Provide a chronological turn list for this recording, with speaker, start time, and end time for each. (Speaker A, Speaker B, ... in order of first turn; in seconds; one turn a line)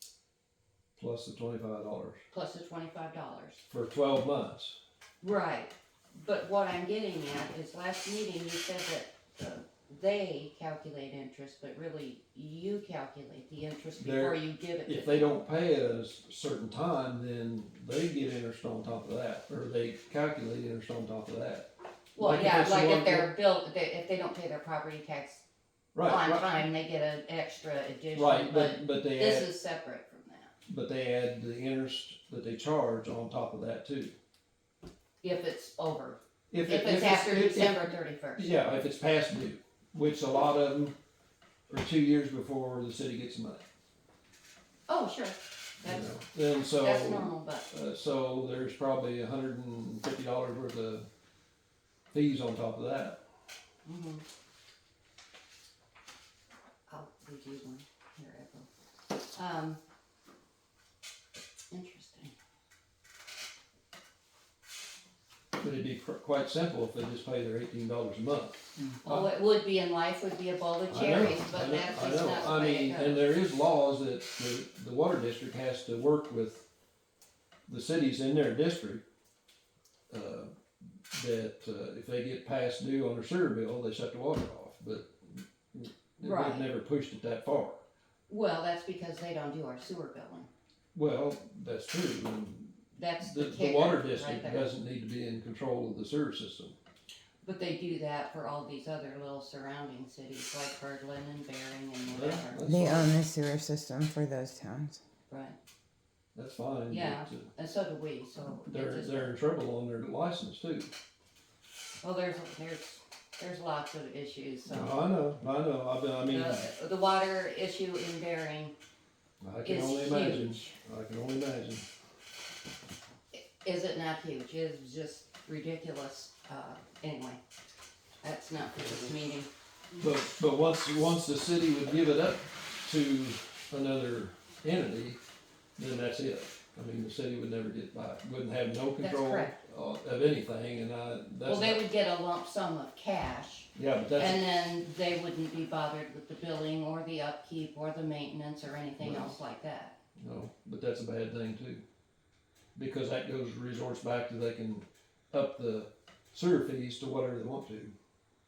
Speaker A: 1.0-2.2
Speaker B: 2.3-3.6
Speaker A: 3.7-4.8
Speaker B: 5.2-15.4
Speaker A: 14.0-23.3
Speaker B: 22.1-25.4
Speaker A: 25.9-26.5
Speaker B: 26.1-30.5
Speaker A: 28.1-29.5
Speaker A: 30.7-34.1
Speaker B: 35.2-38.5
Speaker A: 36.5-41.0
Speaker A: 41.7-43.6
Speaker B: 44.9-46.1
Speaker A: 45.8-51.1
Speaker B: 46.8-47.7
Speaker A: 52.1-53.2
Speaker B: 53.9-54.2
Speaker B: 56.9-58.7
Speaker B: 59.3-59.8
Speaker B: 61.7-62.4
Speaker A: 65.6-69.2
Speaker B: 69.0-73.2
Speaker A: 70.9-76.7
Speaker A: 77.7-79.0
Speaker A: 80.1-80.5
Speaker A: 81.1-87.8
Speaker B: 86.2-86.7
Speaker B: 88.3-90.5
Speaker A: 90.9-96.8
Speaker B: 93.0-94.7
Speaker B: 97.4-102.6
Speaker A: 102.1-103.2
Speaker C: 102.6-105.0
Speaker B: 105.3-105.6
Speaker A: 106.3-107.5
Speaker B: 106.9-109.3
Speaker A: 108.4-110.9
Speaker B: 112.0-115.0
Speaker A: 114.7-116.7
Speaker B: 116.3-118.7
Speaker A: 119.4-121.8
Speaker B: 119.7-120.8
Speaker B: 123.3-127.4
Speaker B: 128.2-129.5
Speaker A: 130.0-135.2
Speaker A: 135.8-141.8
Speaker B: 139.0-139.6
Speaker B: 141.4-149.9
Speaker A: 143.8-144.4
Speaker A: 149.0-149.4
Speaker A: 150.2-151.8
Speaker A: 152.8-157.9